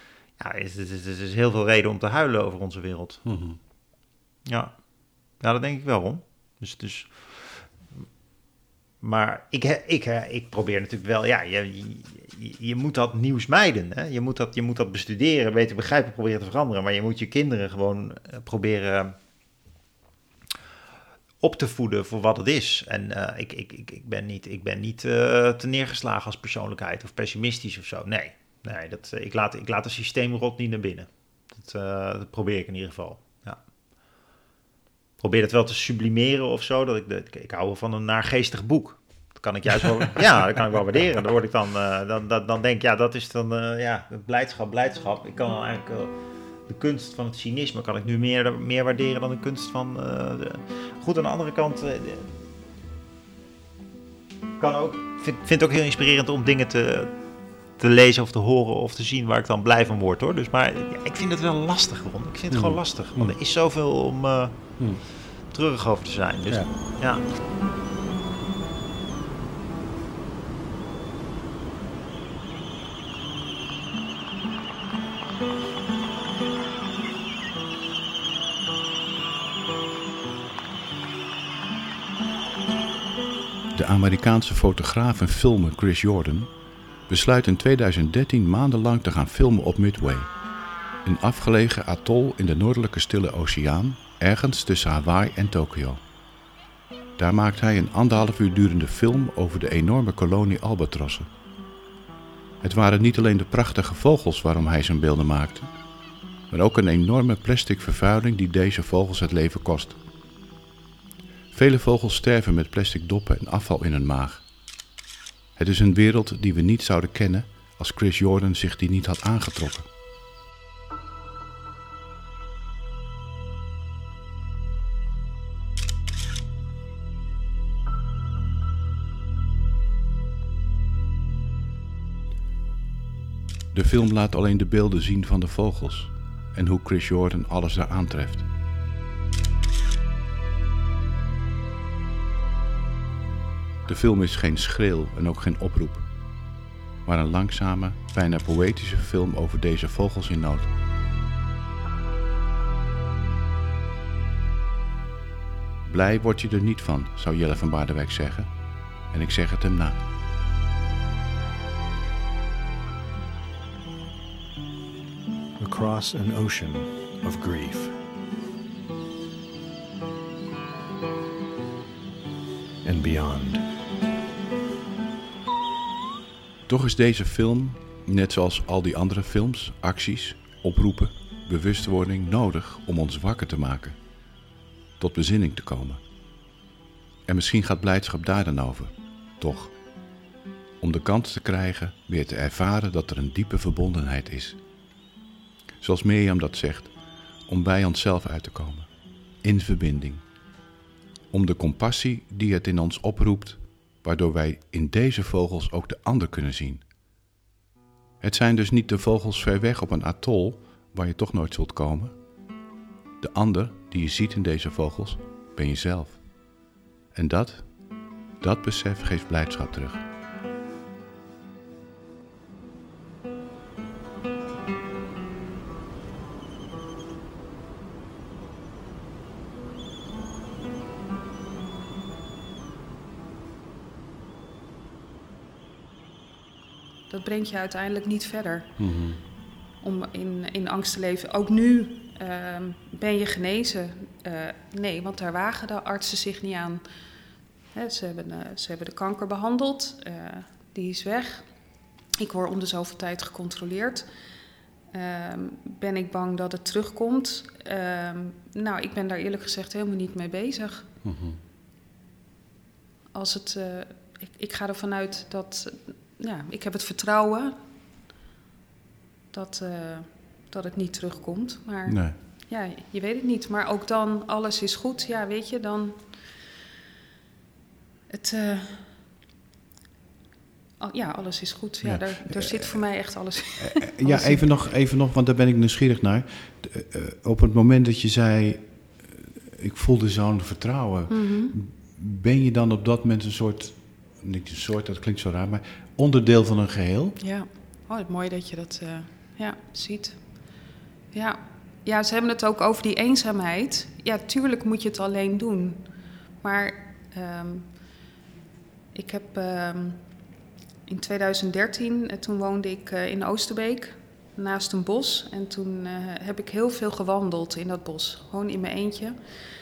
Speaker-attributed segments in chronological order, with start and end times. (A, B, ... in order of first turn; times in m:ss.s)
0:00.4-0:03.2 A
0:03.2-0:03.6 B
0:04.5-0:04.8 A
0:05.4-0:07.6 A
0:09.0-0:19.2 A
0:21.4-0:33.6 A
0:35.2-0:46.2 A
0:46.7-0:52.4 A
0:54.6-0:57.2 A
0:57.8-1:07.3 A
1:02.5-1:03.4 B
1:06.5-1:06.8 B
1:23.7-1:26.5 B
1:27.1-1:30.3 B
1:31.0-1:36.0 B
1:37.2-1:41.3 B
1:42.6-1:45.7 B
1:46.5-1:50.0 B
1:51.5-1:54.4 B
1:55.6-1:59.9 B
2:13.7-2:18.5 B
2:23.9-2:26.1 B
2:27.0-2:30.7 B
2:35.8-2:38.5 B
2:39.1-2:40.0 B
2:45.6-2:48.0 C
2:52.8-2:53.6 C
2:56.7-3:04.0 B
3:05.0-3:06.0 B
3:07.3-3:09.7 B
3:10.8-3:14.6 B
3:15.8-3:16.9 B
3:17.5-3:18.9 B
3:19.4-3:20.2 B
3:21.3-3:26.8 B
3:28.2-3:32.2 B
3:33.2-3:36.2 B
3:37.1-3:37.7 B
3:38.4-3:40.1 B
3:57.1-3:58.8 D
3:58.8-3:59.2 B
3:59.8-4:06.8 D
4:07.7-4:11.5 D
4:12.2-4:14.1 D
4:14.9-4:20.9 D
4:21.0-4:21.4 B
4:23.1-4:27.6 D
4:29.3-4:36.1 D
4:31.9-4:32.2 B
4:38.1-4:39.0 D
4:40.8-4:44.5 D
4:41.8-4:42.9 B
4:43.6-4:57.2 B
4:51.1-4:51.6 D
4:57.2-5:00.2 D
5:01.1-5:05.8 D
5:06.4-5:07.7 D
5:08.9-5:10.0 D
5:10.9-5:19.2 D